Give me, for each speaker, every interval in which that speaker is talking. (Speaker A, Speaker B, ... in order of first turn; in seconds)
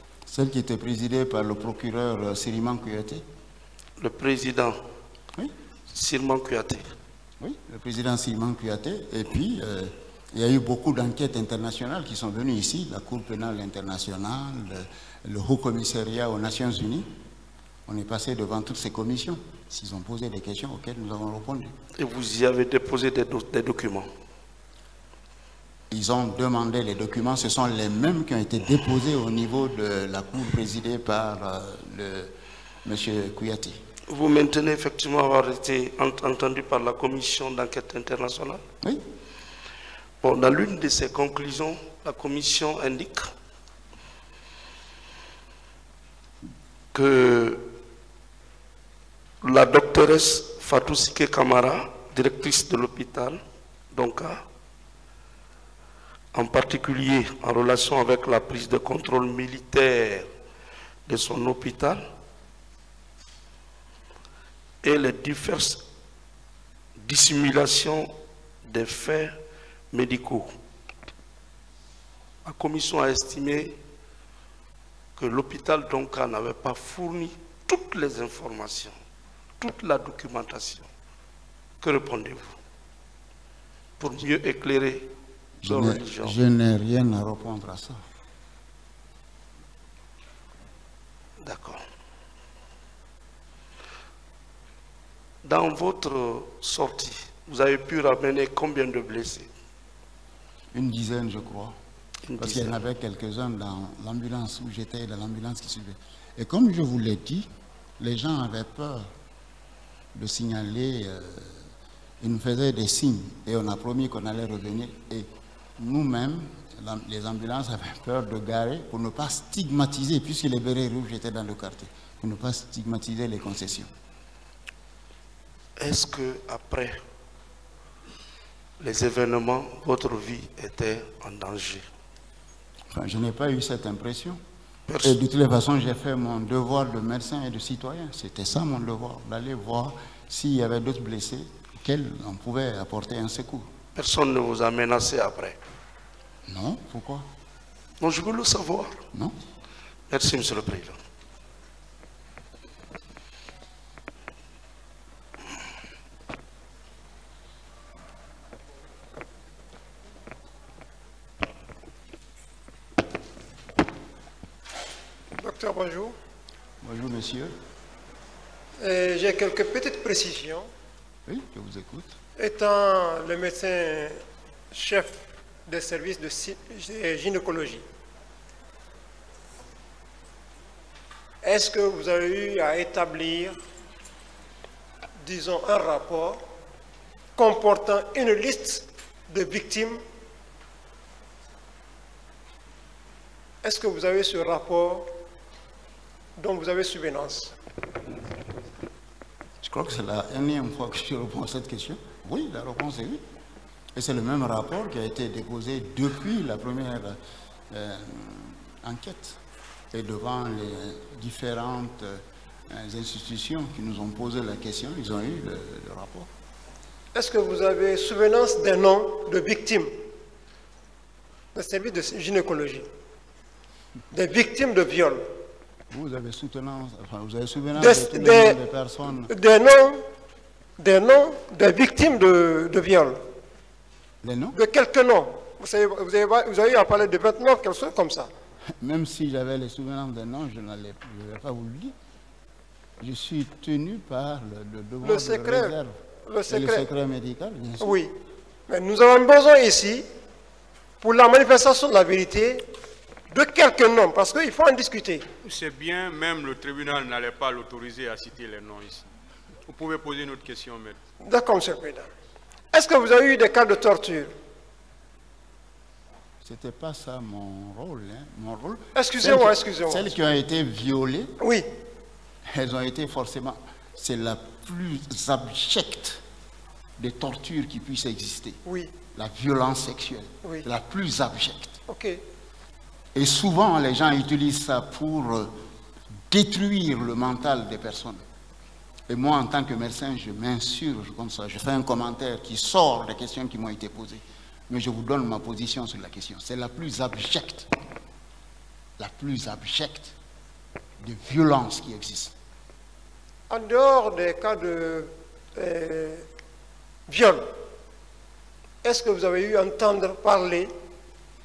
Speaker A: 0.3-3.2, 7.4-17.1, 17.9-21.7, 25.9-32.3, 32.8-33.8, 85.6-88.0, 100.7-101.8, 102.4-107.5, 108.0-109.1, 110.1-111.7, 112.2-123.9, 132.9-134.4, 135.0-143.7, 146.4-147.3, 166.8-167.6, 171.2-172.1, 199.6-203.2, 203.9-207.2, 207.7-209.4, 209.9-216.3, 225.9-229.3, 234.2-234.6, 238.8-241.9, 243.0-246.0, 246.5-248.0, 266.4-271.4, 272.5-276.2, 277.0-278.6, 279.1-281.8, 283.1-285.6, 286.3-288.2, 289.1-297.7, 299.0-300.1, 301.0-302.3
Speaker B: 4.0-4.8, 5.9-7.0, 22.0-24.1, 34.1-38.6, 40.2-43.3, 46.9-47.6, 49.4-53.4, 53.9-54.4, 56.3-60.3, 61.1-62.0, 64.8-65.8, 67.0-68.1, 68.6-69.3, 69.9-70.5, 72.4-73.8, 75.2-79.0, 79.6-80.9, 81.8-82.5, 84.0-85.1, 85.6-86.4, 91.4-91.8, 95.4-99.5, 102.3-102.7, 125.8-127.0, 128.8-131.9, 134.9-135.2, 143.9-145.6, 148.0-149.0, 150.1-151.0
Speaker C: 165.3-166.2, 168.8-170.7, 172.4-177.8, 181.4-183.6, 185.2-186.4, 187.4-190.0, 193.6-195.1, 196.4-197.6, 217.1-219.9, 221.5-222.9, 224.1-225.3, 227.8-228.6, 229.3-230.1, 230.8-233.2, 234.5-238.3, 245.0-246.9, 247.8-248.1, 248.7-250.1, 251.0-252.7, 253.3-255.2, 261.2-262.1, 262.7-264.3, 268.9-270.1, 271.4-271.7, 278.6-278.9, 281.9-282.2, 303.5-306.2, 307.1-307.5, 308.8-310.7
Speaker D: 255.4-259.1, 259.7-261.0